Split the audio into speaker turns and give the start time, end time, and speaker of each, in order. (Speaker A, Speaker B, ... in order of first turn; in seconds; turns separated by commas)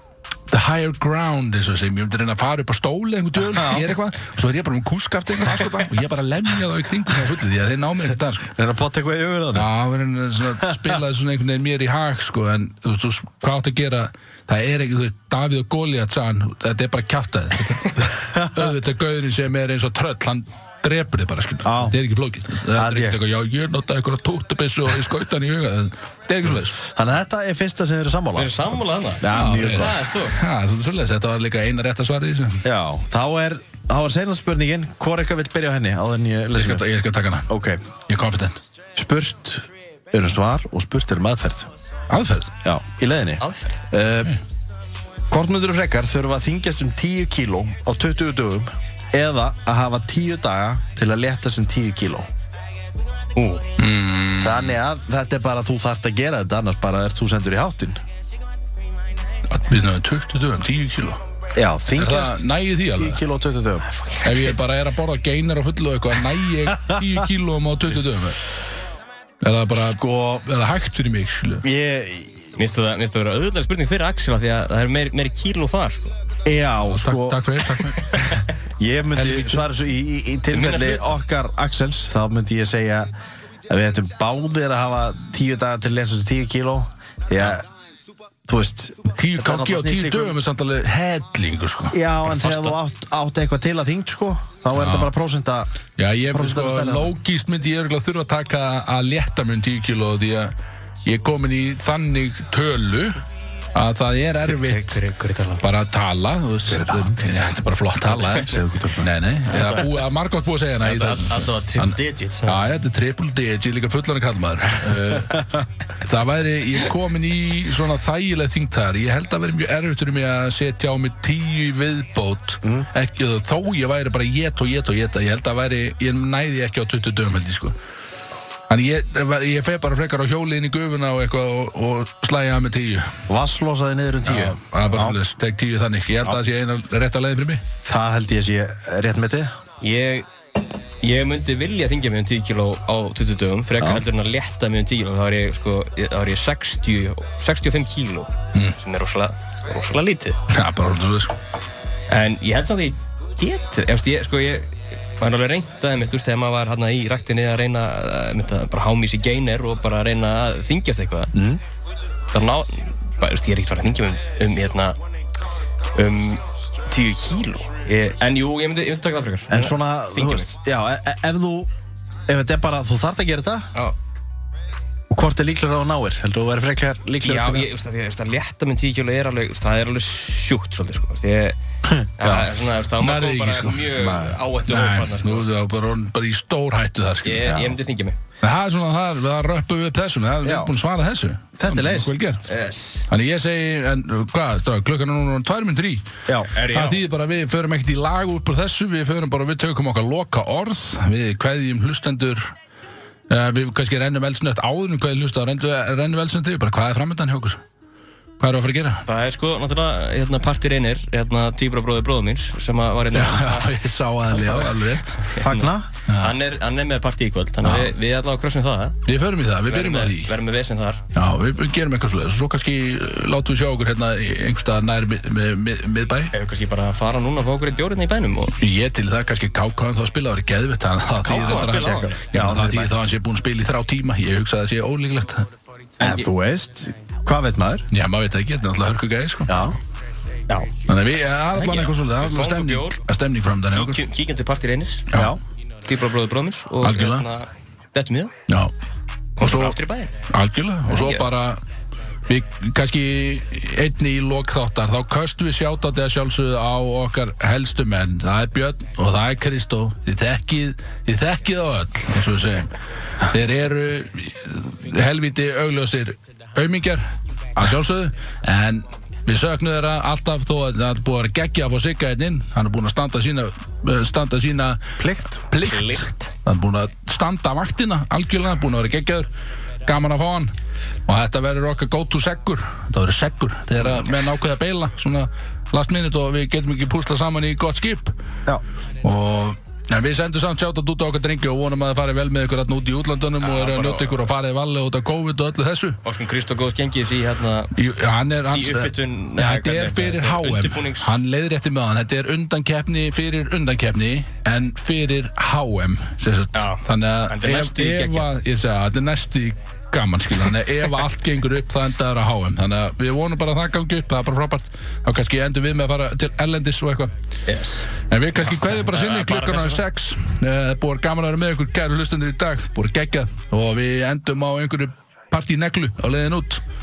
Speaker A: 0.5-8.5, Speaker B: 3.5-3.9, Speaker B: 8.6-9.7, Speaker A: 9.5-26.8, Speaker B: 18.2-18.7, Speaker B: 21.6-22.0, Speaker B: 22.7-23.2, Speaker B: 26.8-28.6, Speaker C: 28.4-30.4, Speaker B: 29.2-30.0, Speaker A: 29.3-32.6, Speaker B: 32.6-36.8, Speaker A: 36.6-37.5, Speaker B: 37.5-37.8, Speaker A: 38.1-38.6, Speaker B: 39.0-41.7, Speaker A: 42.1-42.5, Speaker B: 42.6-44.4, Speaker C: 43.4-43.9, Speaker B: 45.3-52.3, Speaker C: 53.4-53.6, Speaker A: 53.8-54.8, Speaker B: 54.4-58.0, Speaker A: 59.5-61.2, Speaker B: 61.5-63.9, Speaker A: 62.0-63.2, Speaker C: 63.9-64.6, Speaker A: 64.2-68.4, Speaker A: 69.4-71.7, Speaker B: 69.7-70.4, Speaker B: 71.6-72.5, Speaker C: 72.6-76.2, Speaker B: 76.4-77.4, Speaker A: 76.8-78.3, Speaker C: 78.0-78.5, Speaker B: 78.8-83.1, Speaker A: 79.2-79.7, Speaker C: 80.5-81.2, Speaker B: 83.7-87.7, Speaker B: 88.5-90.4, Speaker A: 89.1-91.9, Speaker B: 91.9-95.7, Speaker C: 92.2-92.8, Speaker A: 94.8-95.1, Speaker A: 96.0-100.5, Speaker B: 96.3-97.1, Speaker A: 101.0-103.2, Speaker A: 103.7-105.0, Speaker C: 104.4-105.6, Speaker A: 105.6-127.7, Speaker B: 106.7-107.2, Speaker B: 108.4-109.1, Speaker C: 110.8-112.6, Speaker B: 122.6-122.9, Speaker A: 128.7-133.2, Speaker B: 133.3-135.2, Speaker A: 134.2-137.6, Speaker B: 137.8-139.5, Speaker C: 139.8-140.3, Speaker C: 141.0-150.4, Speaker B: 143.8-144.1, Speaker A: 150.5-151.3, Speaker C: 152.1-161.3, Speaker B: 161.3-161.6, Speaker C: 162.3-165.0, Speaker C: 165.9-170.5, Speaker B: 169.5-171.7, Speaker B: 172.3-173.7, Speaker B: 175.1-177.7, Speaker C: 177.2-181.6, Speaker B: 181.8-182.5, Speaker C: 182.2-185.5, Speaker A: 183.0-183.9, Speaker B: 183.9-184.4, Speaker A: 184.7-187.7, Speaker C: 187.2-188.2, Speaker A: 188.4-192.5, Speaker B: 190.4-190.7, Speaker B: 191.6-192.2, Speaker C: 192.4-193.1, Speaker A: 193.1-196.1, Speaker C: 196.5-197.0, Speaker A: 196.7-202.5, Speaker A: 203.3-207.6, Speaker A: 208.4-209.0, Speaker C: 209.1-213.8, Speaker A: 213.1-215.3, Speaker C: 214.3-219.0, Speaker B: 215.4-215.9, Speaker A: 216.1-216.3, Speaker A: 217.6-217.9, Speaker A: 219.1-220.3, Speaker C: 219.7-221.0, Speaker A: 221.1-226.3, Speaker C: 226.3-228.6, Speaker A: 228.6-235.5, Speaker C: 231.2-232.2, Speaker B: 231.3-232.9, Speaker C: 236.0-236.3, Speaker B: 236.0-237.8, Speaker A: 237.9-239.5, Speaker B: 239.5-239.8, Speaker A: 240.9-244.0, Speaker C: 241.5-243.0, Speaker C: 243.7-245.1, Speaker B: 245.1-245.4, Speaker C: 245.8-248.3, Speaker A: 246.8-247.2, Speaker C: 249.4-250.1, Speaker A: 249.4-251.6, Speaker C: 250.9-251.3, Speaker A: 252.3-267.0, Speaker A: 267.6-279.3, Speaker B: 275.0-275.4, Speaker C: 275.6-276.3, Speaker A: 279.9-280.5, Speaker A: 281.1-288.1, Speaker A: 289.0-296.0, Speaker C: 293.4-294.2, Speaker C: 296.0-297.7, Speaker A: 297.7-317.1, Speaker C: 298.5-301.2, Speaker C: 306.5-308.3, Speaker C: 317.5-317.9, Speaker A: 318.1-326.6, Speaker C: 318.4-319.8